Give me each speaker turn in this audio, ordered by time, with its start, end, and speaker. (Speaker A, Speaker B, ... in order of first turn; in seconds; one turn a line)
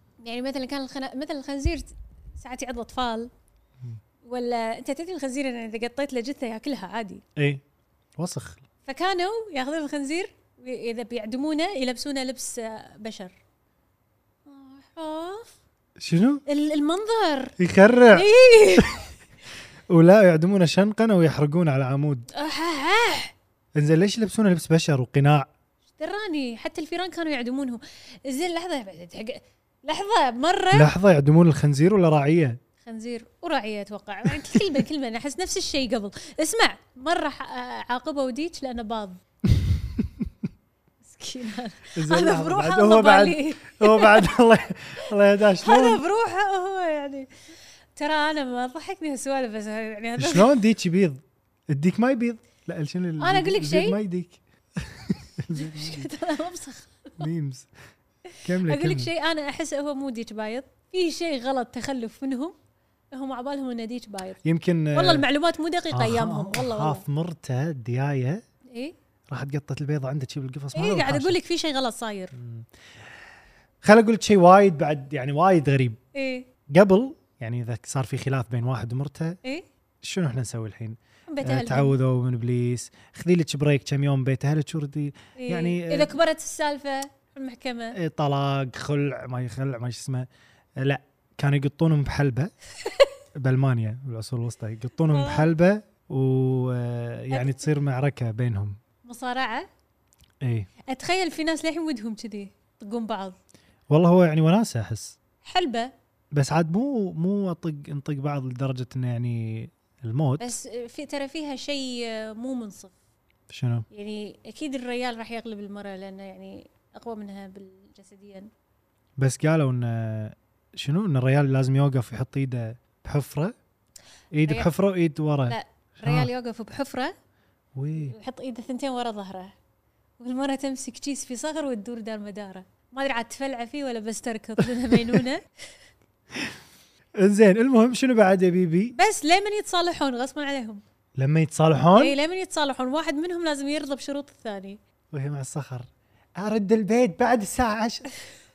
Speaker A: 0.2-3.3
Speaker A: 4.2-7.2
Speaker B: 7.3-7.6
Speaker B: 8.2-8.6
Speaker A: 8.8-13.3
Speaker A: 14.4-15.5
Speaker B: 16.0-16.4
Speaker A: 16.5-17.6
Speaker B: 17.6-18.9
Speaker A: 18.1-19.0
Speaker B: 19.9-22.3
Speaker A: 22.3-23.3
Speaker B: 23.8-25.5
Speaker A: 26.0-30.9
Speaker B: 30.7-32.6
Speaker A: 32.8-39.2
Speaker B: 39.5-40.2
Speaker A: 41.0-44.4
Speaker B: 41.9-46.0
Speaker A: 45.6-47.3
Speaker A: 48.0-50.5
Speaker B: 50.2-56.1
Speaker A: 53.2-54.0
Speaker A: 55.5-57.3
Speaker B: 57.2-57.7
Speaker B: 58.4-59.1
Speaker A: 58.6-62.5
Speaker A: 63.1-64.4
Speaker B: 64.4-65.2
Speaker A: 64.9-67.0
Speaker B: 65.9-68.4
Speaker B: 69.3-71.4
Speaker A: 70.7-72.3
Speaker B: 72.3-72.7
Speaker B: 73.8-76.0
Speaker A: 76.1-76.5
Speaker B: 76.7-79.4
Speaker B: 80.0-86.2
Speaker A: 81.3-81.9
Speaker A: 85.4-88.0
Speaker B: 87.9-92.5
Speaker B: 93.3-98.8
Speaker A: 95.1-95.5
Speaker A: 97.3-97.7
Speaker A: 99.0-99.7
Speaker B: 100.4-100.7
Speaker A: 100.9-103.4
Speaker B: 103.9-105.2
Speaker A: 105.4-105.9
Speaker B: 106.3-110.5
Speaker A: 110.4-112.9
Speaker B: 113.5-113.8
Speaker A: 113.9-118.5
Speaker B: 119.2-123.5
Speaker B: 124.3-126.3
Speaker A: 125.5-127.1
Speaker B: 127.7-128.1
Speaker A: 128.0-129.5
Speaker A: 130.2-135.4
Speaker B: 134.9-135.2
Speaker B: 137.2-138.9
Speaker A: 138.9-140.8
Speaker B: 141.2-142.2
Speaker A: 141.9-144.8
Speaker B: 145.1-148.1